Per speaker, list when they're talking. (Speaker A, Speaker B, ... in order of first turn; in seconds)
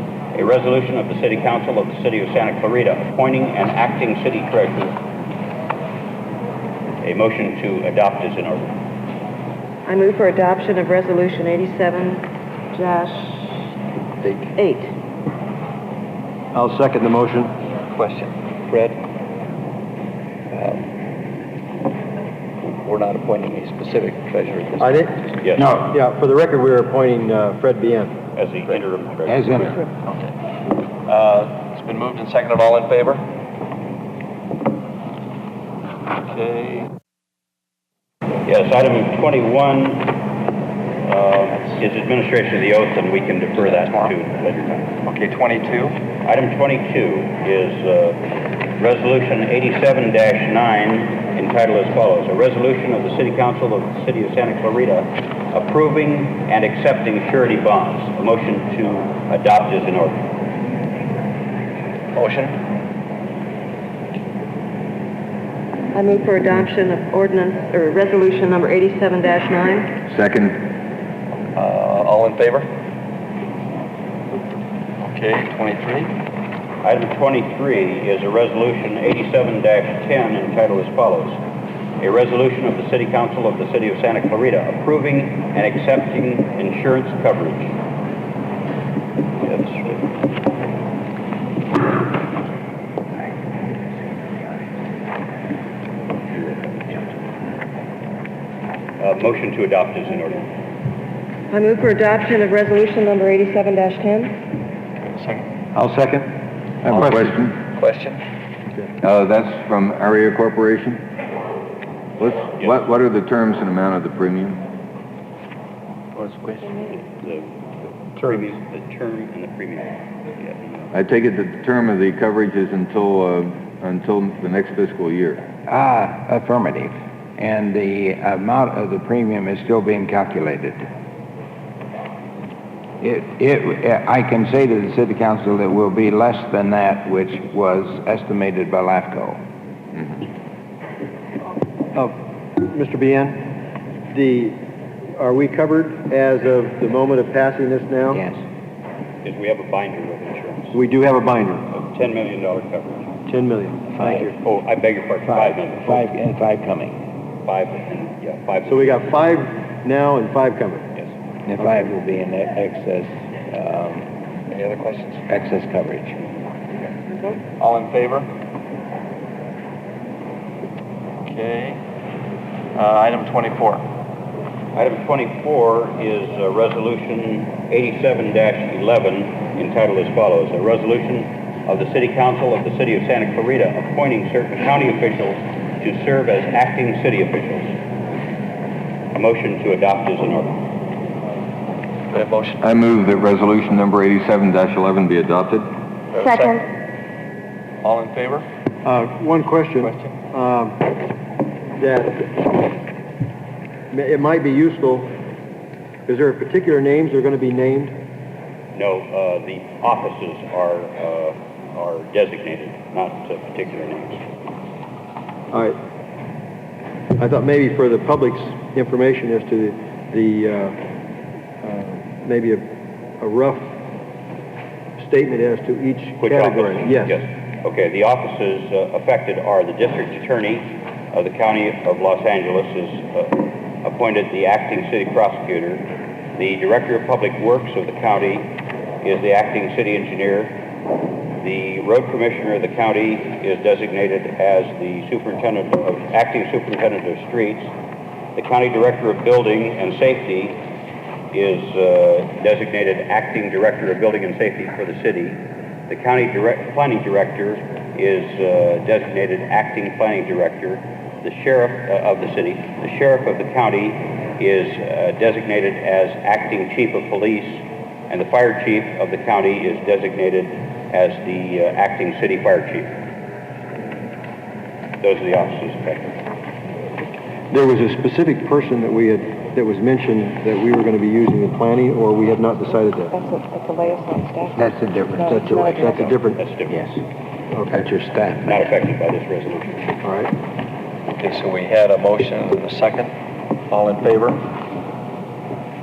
Speaker A: 0.3-5.0, 7.0-8.7, 25.4-25.7, 28.3-29.7, 38.5-40.3, 41.0-44.9, 46.2-60.3, 76.8-81.4, 82.0-87.7, 99.0-100.5, 116.7-117.6, 118.1-120.9, 149.2-150.8, 151.7-153.2, 154.4-156.1, 157.5-159.3, 174.8-187.8, 189.1-190.6, 208.8-214.2, 226.2-240.6, 241.4-247.7, 248.4-250.6, 251.3-272.9, 275.0-276.2, 286.4-286.8, 288.4-289.9
Speaker B: 9.9-13.6, 14.6-15.0, 65.9-70.0, 101.5-104.4, 283.1-284.6, 285.2-285.8
Speaker C: 14.2-14.5, 16.5-17.5, 24.8-28.2, 105.7-107.3, 141.9-143.6, 144.1-148.2, 150.7-151.7, 153.3-154.4, 158.7-160.9, 198.8-200.9, 201.8-202.6, 203.9-205.1, 206.1-208.0, 215.5-215.8, 217.2-220.8, 221.6-223.8, 225.0-227.2, 277.5-283.1, 285.3-286.4, 287.5-287.8, 290.0-290.3
Speaker D: 17.9-18.3, 20.5-20.8, 22.9-25.3, 31.1-33.2, 36.3-36.9, 43.6-44.1, 45.0-46.0, 62.1-62.6, 71.5-72.7, 75.0-76.2, 89.4-90.0, 105.0-105.5, 106.9-108.2, 164.5-165.2, 167.6-168.3, 171.3-171.8, 172.8-173.8, 192.1-192.7, 196.1-196.7, 197.8-198.5, 199.8-200.1, 291.2-293.1, 293.7-294.4
Speaker E: 29.3-29.8, 125.7-130.9, 133.0-139.4, 148.1-148.4, 155.2-157.0, 161.5-164.1, 165.3-166.2, 284.6-286.1, 286.7-287.0, 287.7-288.6
Speaker F: 70.1-70.8, 106.9-107.7, 109.0-111.0, 112.2-114.7, 120.9-125.5, 192.6-195.7